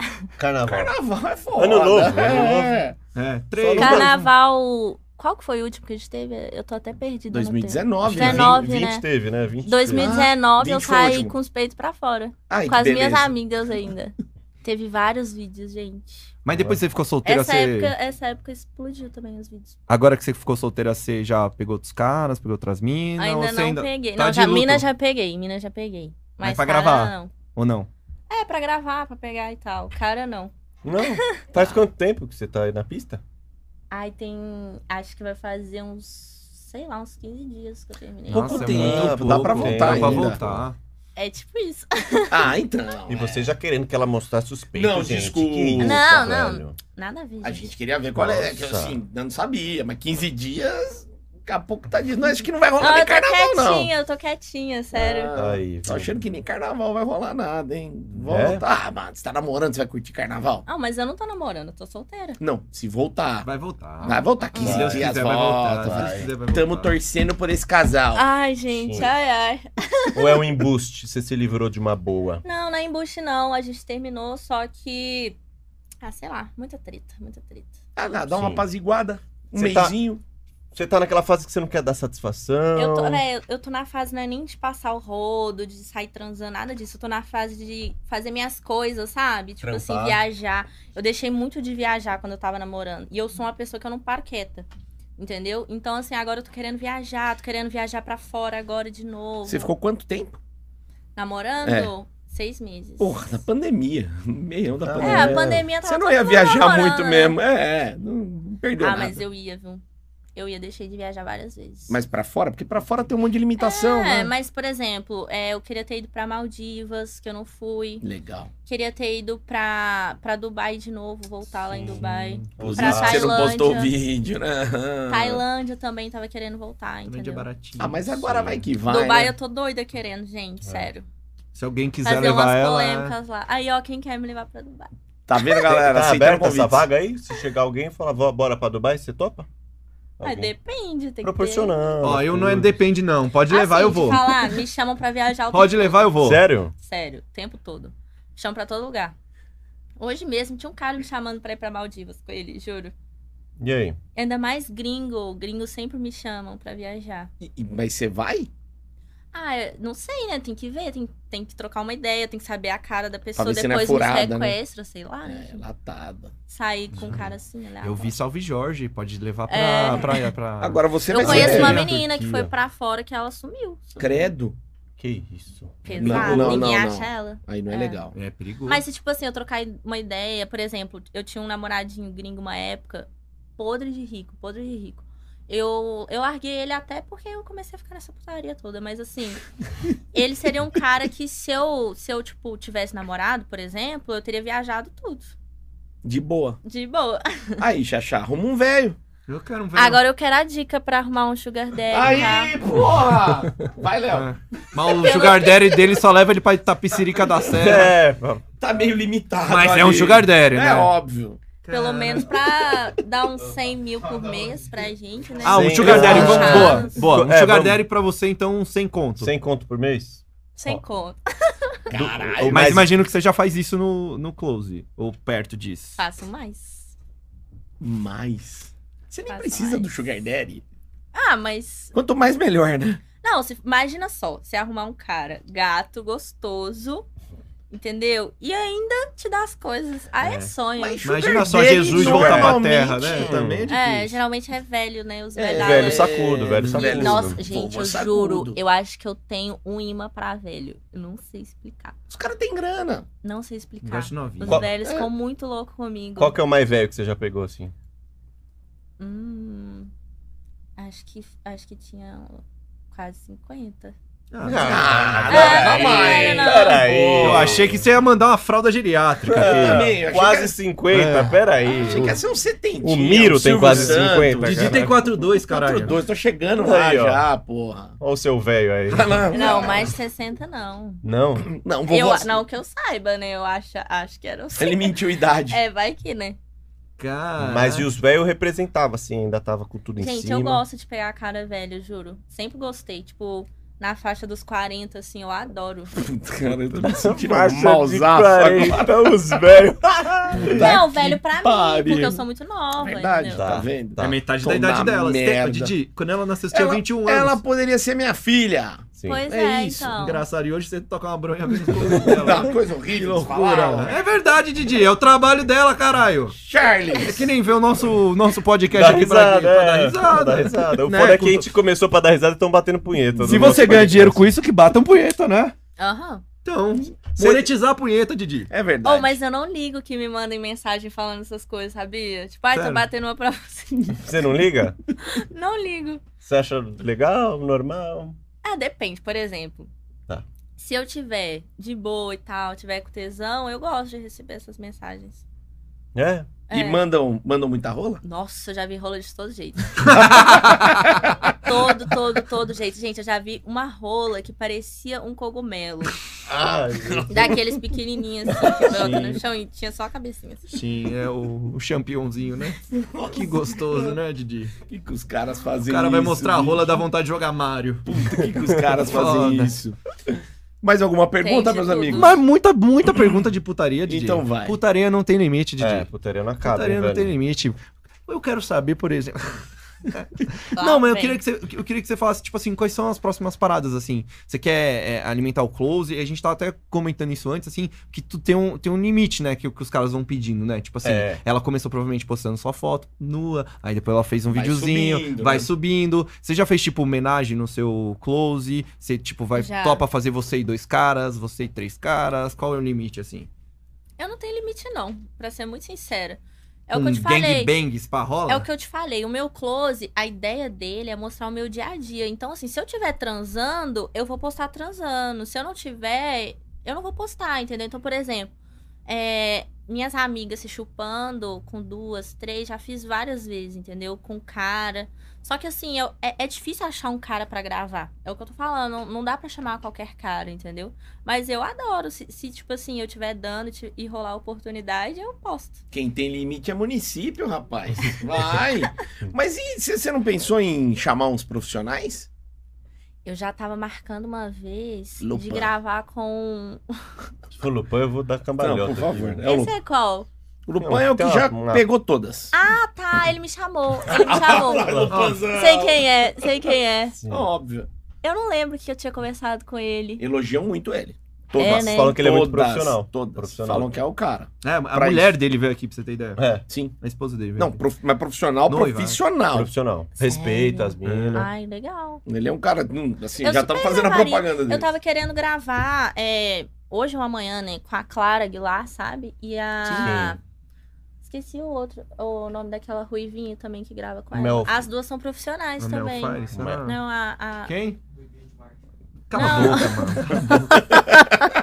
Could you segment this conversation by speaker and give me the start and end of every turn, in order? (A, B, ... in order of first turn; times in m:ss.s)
0:00.4-0:00.9 A
0:00.6-0:03.0 B
0:01.5-0:02.8 A
0:03.1-0:04.2 C
0:03.6-0:04.2 A
0:03.8-0:09.0 D
0:07.3-0:08.6 B
0:08.0-0:10.1 A
0:09.6-0:16.3 D
0:09.9-0:11.3 B
0:12.5-0:13.3 B
0:16.4-0:17.9 C
0:16.5-0:16.8 A
0:17.2-0:19.8 D
0:19.9-0:24.9 C
0:23.2-0:27.3 D
0:26.4-0:27.9 C
0:28.3-0:31.4 D
0:30.8-0:33.2 A
0:31.6-0:31.8 B
0:33.9-0:38.9 D
0:38.3-0:40.8 C
0:38.3-0:40.7 A
0:38.4-0:40.4 B
0:41.2-0:42.5 D
0:42.3-0:43.5 B
0:43.1-0:46.7 A
0:44.7-0:46.0 B
0:45.8-0:47.7 D
0:47.4-0:53.9 B
0:48.2-0:49.0 A
0:52.8-0:55.3 D
0:54.9-1:00.6 B
0:55.3-0:56.2 A
0:58.2-0:58.6 A
1:00.7-1:02.4 D
1:02.4-1:03.5 B
1:03.4-1:07.0 C
1:04.0-1:08.2 B
1:04.5-1:04.8 D
1:04.6-1:05.1 A
1:05.8-1:06.3 A
1:08.1-1:10.5 D
1:08.7-1:09.1 A
1:10.1-1:12.4 A
1:12.4-1:15.4 D
1:16.0-1:17.8 D
1:18.0-1:20.2 B
1:18.3-1:18.6 A
1:19.5-1:20.0 A
1:20.7-1:23.2 A
1:22.7-1:34.7 D
1:29.6-1:30.2 A
1:35.2-1:39.7 D
1:39.4-1:40.4 B
1:41.2-1:43.4 D
1:41.6-1:41.9 B
1:43.0-1:49.2 B
1:44.8-1:45.6 A
1:45.0-1:47.4 D
1:48.8-1:49.8 D
1:50.3-1:52.0 D
1:51.9-1:54.3 B
1:53.6-1:58.0 D
1:58.0-1:58.5 B
1:58.6-2:03.9 D
2:01.7-2:02.5 C
2:02.6-2:03.6 A
2:02.6-2:05.4 B
2:05.1-2:07.4 D
2:07.0-2:08.4 C
2:07.8-2:09.3 B
2:08.2-2:08.6 A
2:08.8-2:11.0 D
2:10.6-2:10.9 A
2:11.5-2:13.1 C
2:12.0-2:14.9 D
2:15.3-2:16.9 B
2:15.6-2:19.5 A
2:20.2-2:20.5 A
2:20.2-2:21.8 D
2:21.2-2:22.8 A
2:22.0-2:24.3 C
2:23.5-2:26.1 D
2:25.5-2:26.4 C
2:26.2-2:26.7 A
2:26.7-2:29.1 D
2:30.0-2:32.9 D
2:33.6-2:34.0 A
2:34.1-2:37.3 D
2:37.4-2:38.5 B
2:39.3-2:45.6 D
2:43.4-2:44.6 B
2:45.2-2:46.3 B
2:46.5-2:48.2 D
2:47.0-2:47.2 C
2:47.8-2:52.3 C
2:49.5-2:50.3 D
2:50.6-2:51.8 B
2:51.1-2:54.0 D
2:51.2-2:52.5 A
2:54.0-2:54.5 B
2:55.0-2:56.7 A
2:55.8-2:58.0 D
2:56.0-2:58.2 B
2:56.0-2:56.6 C
2:58.1-2:58.8 C
2:58.6-3:09.4 D
3:10.1-3:15.3 D
3:16.0-3:16.6 B
3:16.6-3:17.6 D
3:17.6-3:19.0 B
3:19.3-3:20.0 C
3:19.8-3:22.6 D
3:21.9-3:24.3 B
3:24.1-3:27.9 C
3:24.8-3:25.9 D
3:27.5-3:28.4 A
3:28.6-3:31.4 B
3:29.5-3:30.9 C
3:31.6-3:32.5 C
3:31.7-3:37.0 D
3:35.4-3:39.3 C
3:35.4-3:37.8 A
3:35.9-3:36.3 B
3:39.2-3:40.8 A
3:40.6-3:41.8 D
3:41.9-3:42.8 B
3:41.9-3:42.9 A
3:42.4-3:46.0 C
3:46.0-3:46.9 D
3:47.8-3:50.6 B
3:49.3-3:49.9 D
3:51.1-3:51.9 D
3:51.9-3:53.0 B
3:53.2-3:57.1 D
3:57.7-4:01.0 D
4:00.2-4:00.5 C
4:00.8-4:03.3 B
4:01.0-4:04.2 C
4:01.8-4:02.6 A
4:03.2-4:03.7 A
4:03.7-4:06.2 D
4:05.3-4:08.6 B
4:05.6-4:07.4 A
4:06.6-4:06.9 C
4:06.7-4:11.9 D
4:12.1-4:13.0 B
4:13.2-4:16.4 D
4:13.8-4:14.6 C
4:14.8-4:15.1 B
4:16.2-4:17.7 A
4:19.0-4:19.9 D
4:20.8-4:23.9 D
4:24.3-4:25.2 C
4:24.4-4:27.8 A
4:24.5-4:27.8 B
4:25.3-4:26.8 D
4:27.2-4:29.8 C
4:29.2-4:32.2 A
4:29.4-4:30.6 B
4:30.9-4:32.1 C
4:31.8-4:38.0 B
4:32.8-4:35.1 A
4:33.6-4:35.9 C
4:36.6-4:37.2 A
4:38.0-4:39.3 A
4:38.9-4:39.9 B
4:39.3-4:41.0 D
4:41.0-4:41.5 A
4:41.4-4:42.4 B
4:41.9-4:46.4 D
4:44.6-4:45.6 B
4:47.0-4:47.9 C
4:47.4-4:50.6 A
4:50.0-4:56.0 D
4:56.0-4:59.1 B
4:56.7-5:00.8 A
5:00.4-5:00.6 C
5:00.4-5:02.2 B
5:00.4-5:03.4 D
5:02.8-5:05.7 B
5:03.3-5:04.2 A
5:04.0-5:07.4 C
5:06.5-5:10.0 B
5:09.0-5:09.2 A
5:09.0-5:10.2 D
5:10.0-5:16.3 C
5:11.8-5:14.0 B
5:16.4-5:17.3 B
5:17.0-5:21.5 C
5:18.7-5:24.3 A
5:23.2-5:25.5 C
5:25.8-5:26.2 D
5:26.4-5:28.5 C
5:27.2-5:27.4 B
5:28.5-5:29.2 B
5:28.8-5:34.0 D
5:32.5-5:32.8 C
5:34.0-5:34.8 A
5:35.0-5:36.0 D
5:36.2-5:38.2 A
5:38.4-5:39.7 D
5:40.6-5:45.2 D
5:45.9-5:46.3 A
5:46.5-5:46.8 D
5:46.5-5:48.0 B
5:48.0-5:50.4 D
5:49.8-5:50.8 C
5:49.9-5:51.4 B
5:51.1-5:56.0 D
5:56.3-5:57.4 A
5:56.8-5:57.4 B
5:57.1-6:00.5 D
5:58.4-5:58.9 A
5:58.7-5:59.2 C
6:00.5-6:04.5 C
6:02.7-6:04.0 B
6:04.7-6:06.8 B
6:05.6-6:07.9 C
6:07.8-6:09.8 B
6:08.8-6:09.5 C
6:10.6-6:12.2 B
6:11.2-6:12.2 D
6:11.9-6:15.9 C
6:13.9-6:14.6 B
6:15.6-6:17.1 A
6:16.4-6:43.3 C
6:20.5-6:21.2 D
6:30.8-6:31.2 A
6:34.3-6:35.5 B
6:39.3-6:39.8 D
6:44.0-6:47.5 D
6:46.7-6:48.5 C
6:48.3-6:58.3 D
6:58.9-7:15.6 D
7:15.7-7:22.1 B
7:23.0-7:26.6 D
7:25.0-7:25.5 B
7:27.3-7:29.2 A
7:28.4-7:29.5 B
7:29.2-7:30.1 D
7:30.5-7:32.4 B
7:30.6-7:31.6 A
7:32.3-7:37.0 D
7:33.9-7:35.9 B
7:34.6-7:34.9 A
7:34.9-7:35.2 C
7:37.0-7:37.3 A
7:37.1-7:37.7 B
7:38.0-7:40.0 D
7:40.0-7:45.1 B
7:41.4-7:42.0 D
7:41.4-7:43.7 A
7:44.4-7:46.2 C
7:46.2-7:46.4 A
7:46.5-7:46.7 B
7:46.8-7:47.6 C
7:47.4-7:49.5 B
7:48.5-7:49.0 C
7:49.3-7:51.3 A
7:50.0-7:52.0 D
7:52.0-7:54.7 B
7:53.2-8:00.2 D
7:59.6-8:00.2 A
8:01.0-8:07.5 D
8:04.1-8:04.5 A
8:05.6-8:06.8 C
8:06.3-8:06.6 A
8:07.4-8:07.8 C
8:09.1-8:10.5 C
8:09.1-8:11.2 D